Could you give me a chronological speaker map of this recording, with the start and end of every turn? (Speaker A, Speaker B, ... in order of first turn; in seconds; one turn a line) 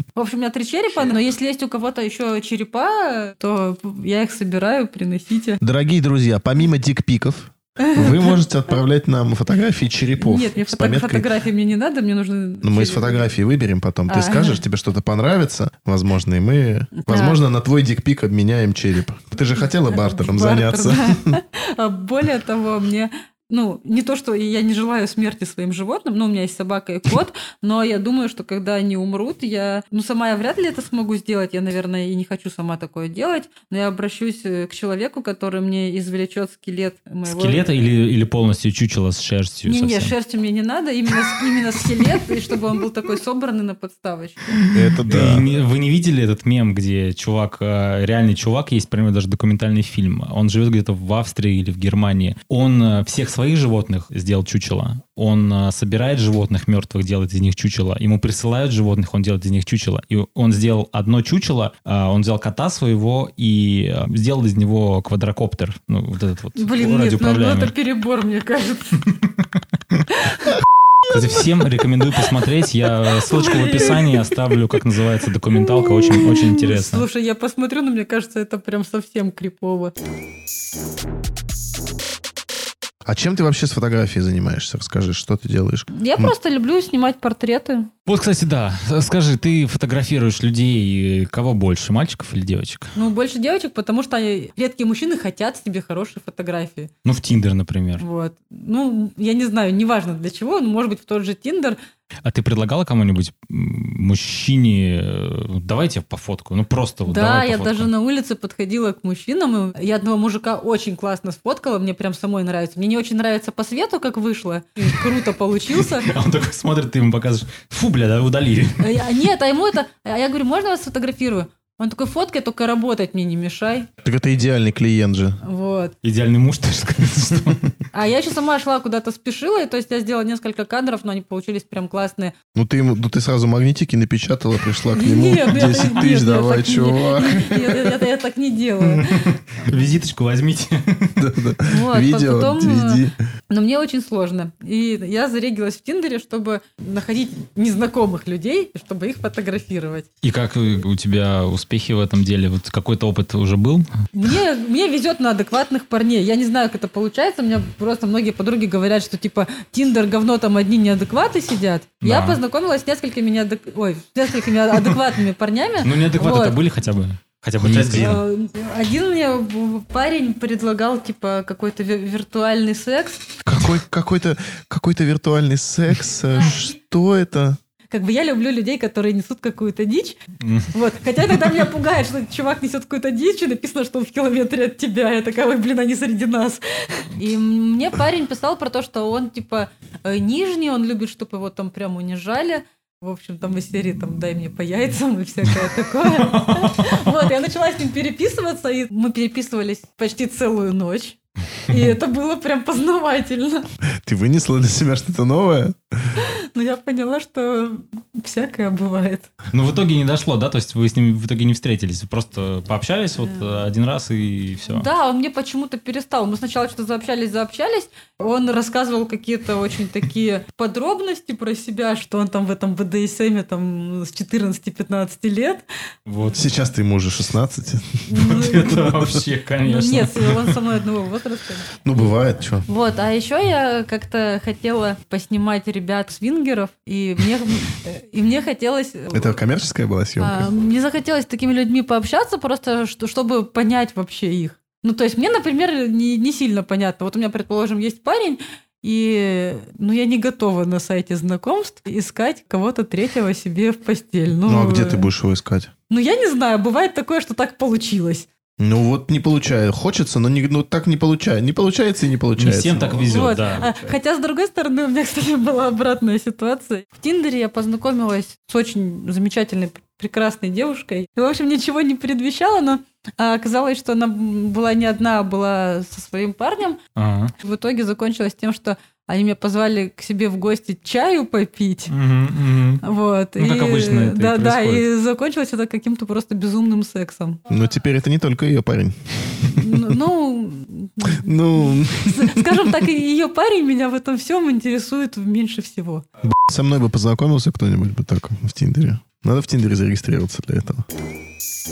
Speaker A: 0.1-5.6
Speaker B: 5.6-11.3
Speaker A: 7.8-8.3
Speaker A: 10.2-13.3
Speaker B: 12.6-21.4
Speaker A: 14.1-14.6
Speaker A: 16.9-17.4
Speaker A: 19.6-37.6
Speaker C: 37.3-40.1
Speaker A: 39.6-44.6
Speaker C: 44.5-67.7
Speaker B: 44.7-45.5
Speaker A: 66.6-69.0
Speaker A: 70.1-70.6
Speaker C: 71.1-77.0
Speaker A: 73.2-74.3
Speaker A: 75.6-79.9
Speaker B: 83.0-86.3
Speaker A: 85.9-87.9
Speaker C: 88.1-92.9
Speaker A: 92.9-96.9
Speaker C: 97.0-98.0
Speaker A: 98.0-101.8
Speaker C: 102.2-107.9
Speaker A: 107.1-116.1
Speaker C: 115.8-118.9
Speaker A: 118.8-123.9
Speaker B: 124.0-125.4
Speaker A: 125.4-125.9
Speaker C: 126.0-127.8
Speaker A: 127.9-132.3
Speaker B: 132.5-137.9
Speaker A: 134.9-139.2
Speaker C: 138.8-141.2
Speaker B: 141.2-143.1
Speaker A: 141.6-150.1
Speaker C: 150.2-153.9
Speaker A: 154.1-166.6
Speaker C: 162.0-162.4
Speaker C: 165.8-168.2
Speaker B: 167.6-168.2
Speaker A: 167.9-173.3
Speaker B: 173.4-177.6
Speaker A: 177.9-180.2
Speaker C: 180.4-180.7
Speaker A: 180.7-203.7
Speaker C: 196.2-196.9
Speaker B: 204.0-205.8
Speaker A: 206.2-209.3
Speaker C: 209.5-214.9
Speaker A: 214.7-225.6
Speaker C: 226.1-226.5
Speaker B: 226.3-228.1
Speaker A: 228.1-229.0
Speaker C: 228.1-230.6
Speaker A: 229.6-231.7
Speaker B: 231.8-232.7
Speaker A: 232.7-239.4
Speaker B: 239.1-240.5
Speaker A: 240.2-255.1
Speaker B: 254.4-255.7
Speaker A: 255.9-258.3
Speaker B: 258.6-263.2
Speaker C: 262.4-263.7
Speaker A: 263.1-276.8
Speaker C: 276.9-277.3
Speaker A: 277.4-281.9
Speaker C: 281.9-282.8
Speaker A: 282.8-287.4
Speaker C: 283.4-284.8
Speaker B: 287.5-289.9
Speaker A: 289.5-296.0
Speaker B: 291.1-292.8
Speaker B: 296.2-300.8